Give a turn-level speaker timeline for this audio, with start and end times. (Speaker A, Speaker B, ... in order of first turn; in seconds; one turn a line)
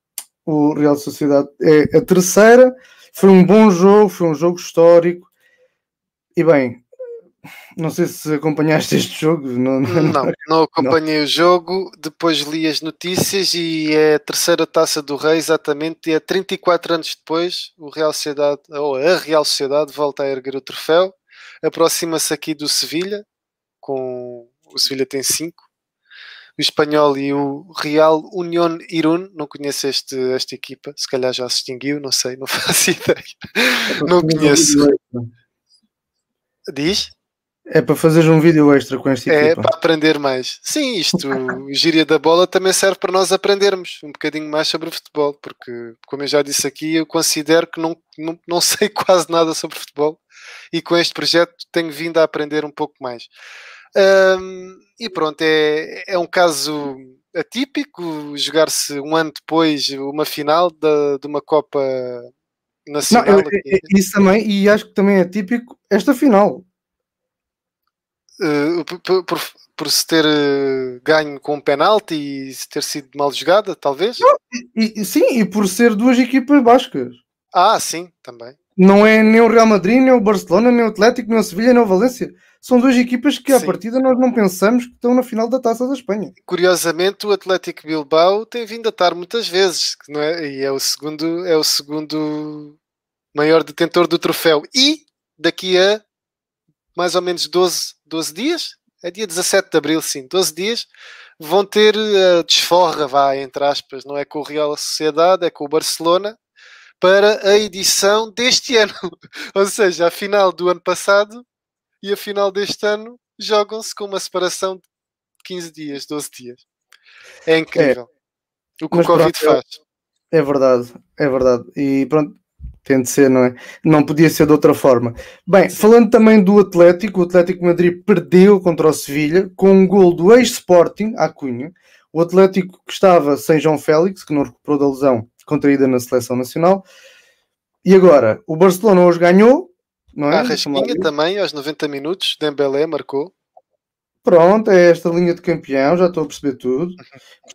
Speaker A: 0.5-5.3
Speaker A: 6.3-6.8
Speaker A: 7.8-10.9
Speaker B: 9.9-23.2
Speaker B: 23.8-25.6
Speaker B: 26.6-34.9
Speaker A: 33.9-35.3
Speaker B: 36.7-37.1
Speaker A: 37.7-39.7
Speaker B: 39.3-50.2
Speaker B: 50.7-53.3
Speaker B: 54.0-62.3
Speaker B: 62.9-63.9
Speaker A: 63.1-66.7
Speaker B: 68.4-74.2
Speaker A: 74.2-77.2
Speaker B: 77.5-78.5
Speaker A: 78.8-86.3
Speaker B: 83.5-83.8
Speaker B: 86.5-92.8
Speaker B: 93.3-96.0
Speaker B: 96.9-106.4
Speaker B: 107.0-111.4
Speaker B: 112.0-114.8
Speaker B: 115.4-116.6
Speaker B: 117.5-118.0
Speaker B: 118.8-119.8
Speaker A: 118.9-119.6
Speaker A: 120.3-136.8
Speaker A: 137.8-141.1
Speaker B: 140.3-143.3
Speaker A: 144.2-147.0